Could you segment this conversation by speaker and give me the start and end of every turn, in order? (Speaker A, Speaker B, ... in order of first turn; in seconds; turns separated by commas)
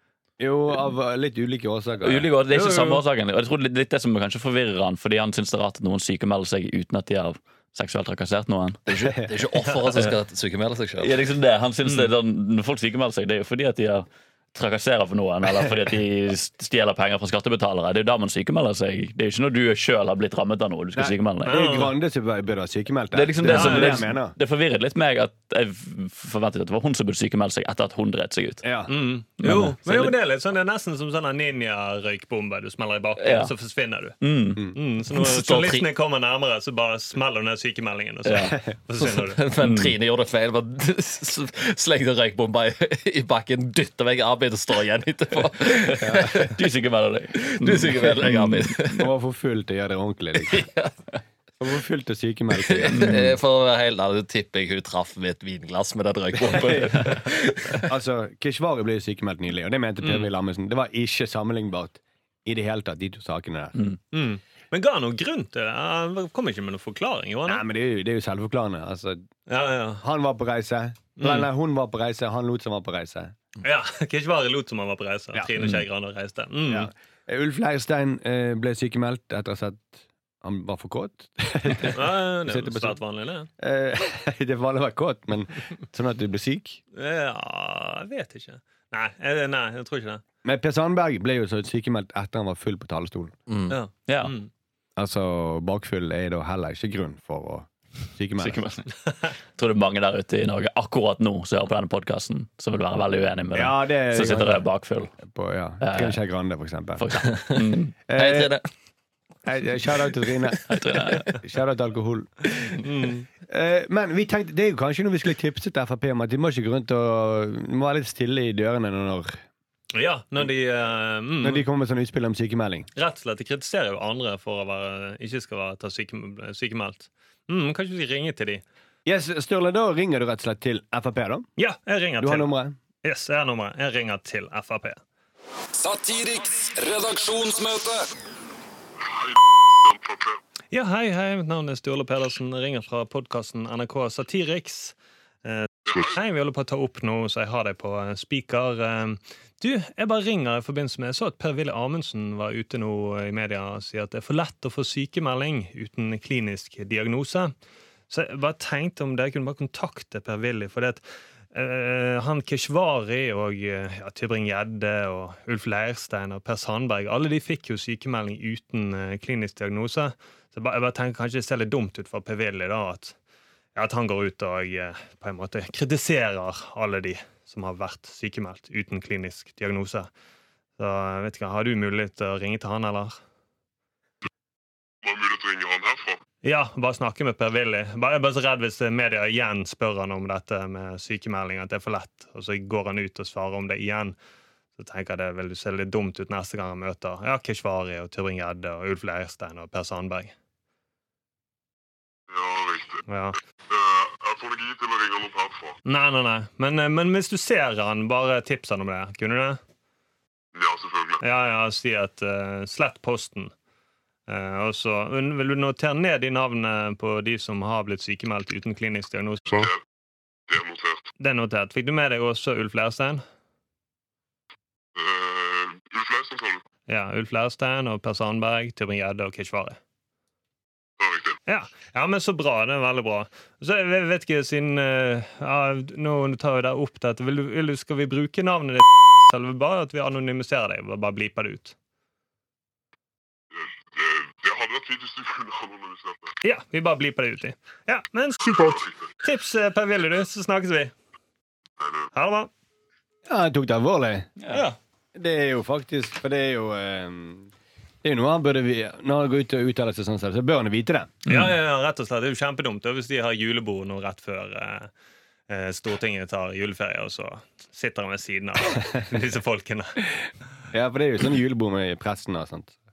Speaker A: 0.4-2.9, Speaker B: 2.0-8.8, Speaker C: 8.9-11.1, Speaker B: 11.0-21.6, Speaker A: 20.9-24.4, Speaker D: 21.4-21.9, Speaker B: 23.1-28.6, Speaker D: 23.4-24.0, Speaker A: 28.6-28.9, Speaker D: 28.9-34.2, Speaker B: 29.4-30.1, Speaker B: 33.2-33.5, Speaker B: 34.2-34.7, Speaker D: 34.7-39.4, Speaker C: 35.1-35.9, Speaker B: 38.2-38.5, Speaker C: 39.0-46.5, Speaker B: 39.6-40.0, Speaker A: 46.1-46.3, Speaker B: 46.1-48.9, Speaker C: 47.4-49.0, Speaker A: 48.9-50.6, Speaker C: 50.5-50.9, Speaker A: 51.6-53.1, Speaker C: 52.6-57.8, Speaker B: 52.9-53.4, Speaker A: 56.4-57.1, Speaker A: 57.9-63.8, Speaker D: 60.0-60.3, Speaker D: 64.1-67.6, Speaker A: 67.5-69.2, Speaker D: 69.5-70.0, Speaker A: 70.0-73.3, Speaker D: 71.2-71.5, Speaker D: 73.6-76.9, Speaker A: 76.7-83.0, Speaker D: 81.8-83.5, Speaker A: 83.6-86.8, Speaker D: 86.9-90.2, Speaker A: 90.4-93.3, Speaker C: 93.5-93.8, Speaker D: 93.7-94.5, Speaker B: 94.1-94.3, Speaker A: 95.0-98.6, Speaker B: 98.4-98.8, Speaker B: 99.5-105.1, Speaker A: 103.5-104.7, Speaker A: 105.2-107.1, Speaker B: 105.8-106.2, Speaker B: 107.0-107.9, Speaker A: 108.1-108.6, Speaker C: 108.1-108.7, Speaker A: 109.4-110.6, Speaker B: 110.7-111.4, Speaker A: 111.4-112.7, Speaker D: 112.8-113.2, Speaker A: 113.5-119.4, Speaker D: 119.9-121.6, Speaker A: 121.4-122.9, Speaker D: 123.0-128.6, Speaker A: 129.1-131.4, Speaker D: 131.6-132.5, Speaker A: 132.2-132.8, Speaker D: 133.0-135.0, Speaker E: 135.7-138.1, Speaker F: 139.1-140.4, Speaker D: 140.7-157.5, Speaker F: 145.9-146.2, Speaker D: 158.1-161.0, Speaker D: 161.5-173.1, Speaker D: 173.7-180.1, Speaker D: 180.8-183.2, Speaker F: 185.0-186.2, Speaker D: 186.4-194.2, Speaker D: 194.8-200.3, Speaker F: 202.3-203.0, Speaker D: 203.1-203.4, Speaker F: 203.7-205.8, Speaker D: 205.8-209.6, Speaker F: 210.5-211.2, Speaker D: 211.2-213.5, Speaker D: 214.3-219.6, Speaker F: 219.5-219.8, Speaker F: 220.5-221.1, Speaker D: 221.2-223.2, Speaker F: 224.9-226.6, Speaker D: 226.9-229.8, Speaker F: 231.0-231.4, Speaker D: 231.5-241.7, Speaker F: 243.6-246.3, Speaker D: 246.4-250.9, Speaker F: 248.4-249.0, Speaker F: 251.8-252.1, Speaker D: 252.1-252.5, Speaker A: 253.3-254.3, Speaker B: 254.4-254.6, Speaker D: 254.5-254.8, Speaker A: 255.1-257.5, Speaker A: 258.0-261.2, Speaker B: 261.2-261.6, Speaker D: 261.3-264.9, Speaker D: 265.5-270.0, Speaker A: 270.7-272.7